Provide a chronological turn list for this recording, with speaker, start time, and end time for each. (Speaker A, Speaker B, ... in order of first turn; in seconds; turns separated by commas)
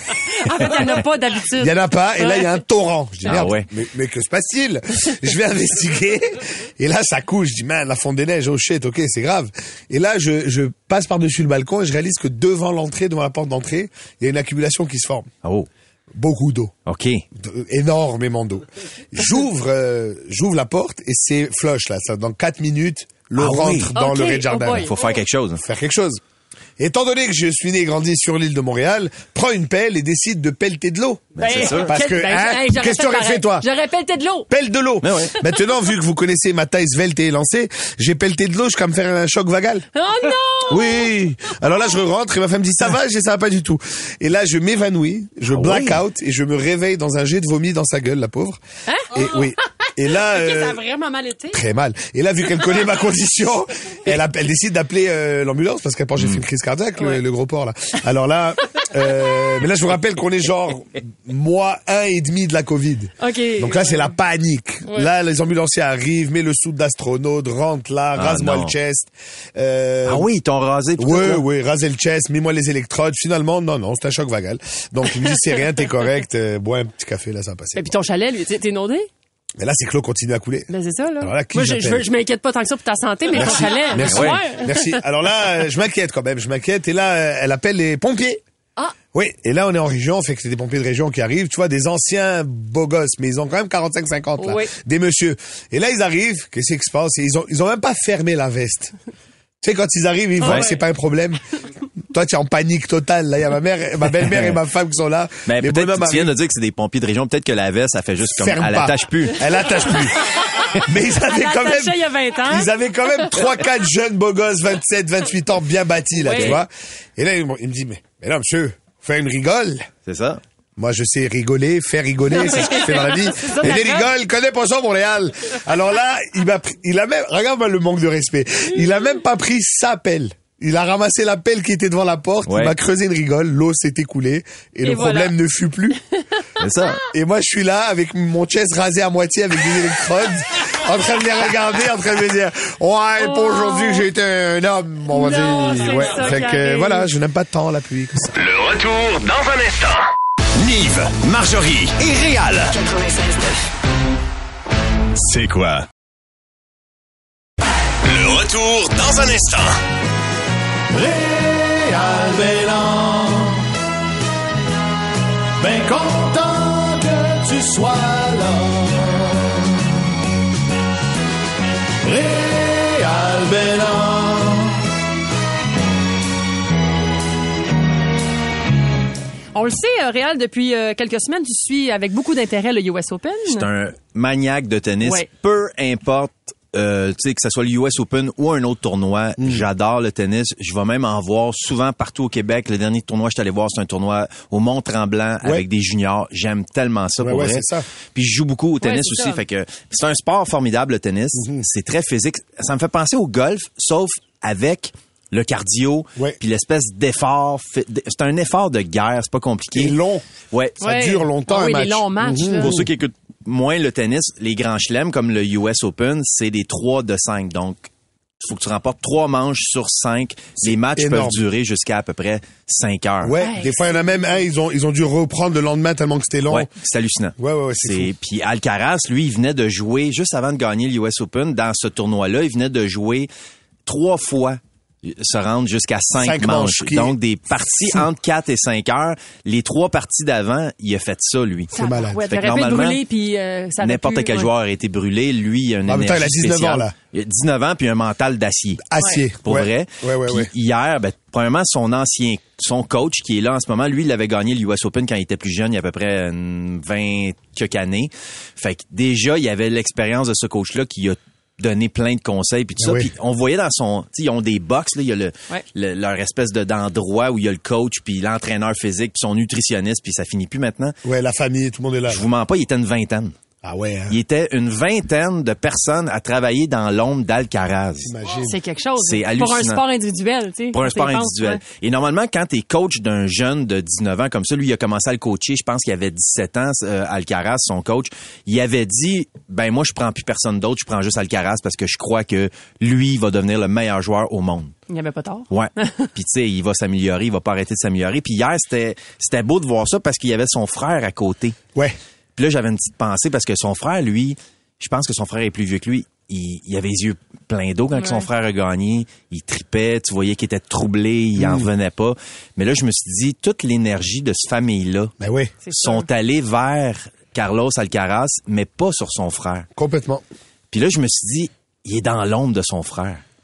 Speaker A: 0.1-2.5, Speaker B: 1.6-15.3, Speaker C: 3.2-3.7, Speaker B: 16.1-16.7, Speaker C: 16.9-17.2, Speaker B: 17.4-24.9, Speaker C: 23.4-23.9, Speaker A: 23.9-24.9, Speaker C: 24.8-25.6, Speaker B: 25.6-26.2, Speaker B: 26.8-33.7, Speaker C: 31.4-31.9, Speaker A: 31.4-34.5, Speaker B: 34.5-39.9, Speaker C: 35.0-35.4, Speaker A: 40.0-41.1, Speaker B: 40.7-48.6, Speaker C: 45.5-46.0, Speaker A: 48.9-51.6, Speaker B: 49.1-50.8, Speaker B: 51.5-70.3, Speaker A: 63.2-64.1, Speaker C: 68.2-68.8, Speaker C: 70.1-71.5, Speaker B: 71.0-77.8, Speaker A: 77.8-79.1, Speaker B: 79.6-82.1, Speaker A: 80.7-85.0, Speaker B: 83.3-88.4, Speaker C: 83.4-84.4, Speaker B: 89.1-98.9, Speaker A: 94.4-94.7, Speaker B: 99.6-101.4, Speaker A: 100.5-100.7, Speaker B: 102.1-106.3, Speaker C: 104.2-104.6, Speaker C: 105.5-109.6, Speaker B: 108.2-110.3, Speaker A: 109.8-113.4, Speaker B: 110.8-119.9, Speaker A: 116.2-116.6, Speaker C: 116.3-116.6, Speaker C: 120.1-120.4, Speaker B: 120.8-136.0, Speaker A: 122.3-124.1, Speaker C: 132.5-132.8, Speaker A: 134.8-135.3, Speaker C: 136.6-137.0, Speaker B: 137.1-148.3, Speaker A: 143.2-144.1, Speaker A: 145.1-147.1, Speaker D: 148.3-152.9, Speaker D: 155.2-155.9, Speaker D: 158.0-159.8, Speaker E: 160.9-163.6, Speaker E: 165.6-169.5, Speaker E: 172.0-174.8, Speaker A: 179.6-183.7, Speaker C: 183.5-209.9, Speaker A: 185.0-185.3, Speaker B: 189.4-189.7, Speaker B: 197.2-197.8, Speaker A: 198.8-199.4, Speaker B: 201.3-201.7, Speaker B: 209.7-210.2, Speaker C: 210.5-210.8, Speaker A: 210.8-212.8, Speaker B: 210.8-212.9, Speaker C: 212.6-217.9, Speaker C: 218.4-223.4, Speaker B: 220.6-221.4, Speaker B: 223.2-226.7, Speaker A: 223.4-223.8, Speaker C: 226.5-233.3, Speaker B: 227.4-228.1, Speaker C: 233.9-241.7, Speaker B: 236.2-237.2, Speaker A: 241.7-244.5, Speaker B: 241.7-242.2, Speaker C: 242.2-243.0, Speaker C: 243.8-248.8, Speaker B: 245.9-246.9, Speaker B: 248.8-250.5, Speaker C: 249.4-271.0, Speaker B: 262.8-263.1, Speaker B: 271.0-272.3, Speaker C: 272.1-273.4, Speaker B: 273.6-274.2, Speaker C: 274.1-278.1, Speaker B: 278.0-278.6, Speaker A: 278.4-281.6, Speaker C: 279.0-279.8, Speaker C: 280.7-294.7, Speaker A: 294.9-296.1, Speaker C: 295.5-301.6, Speaker C: 302.4-315.1, Speaker A: 307.9-308.3, Speaker B: 311.4-311.7, Speaker B: 315.2-315.5, Speaker A: 315.6-316.1, Speaker C: 315.7-319.7, Speaker B: 319.8-320.2, Speaker C: 320.7-323.2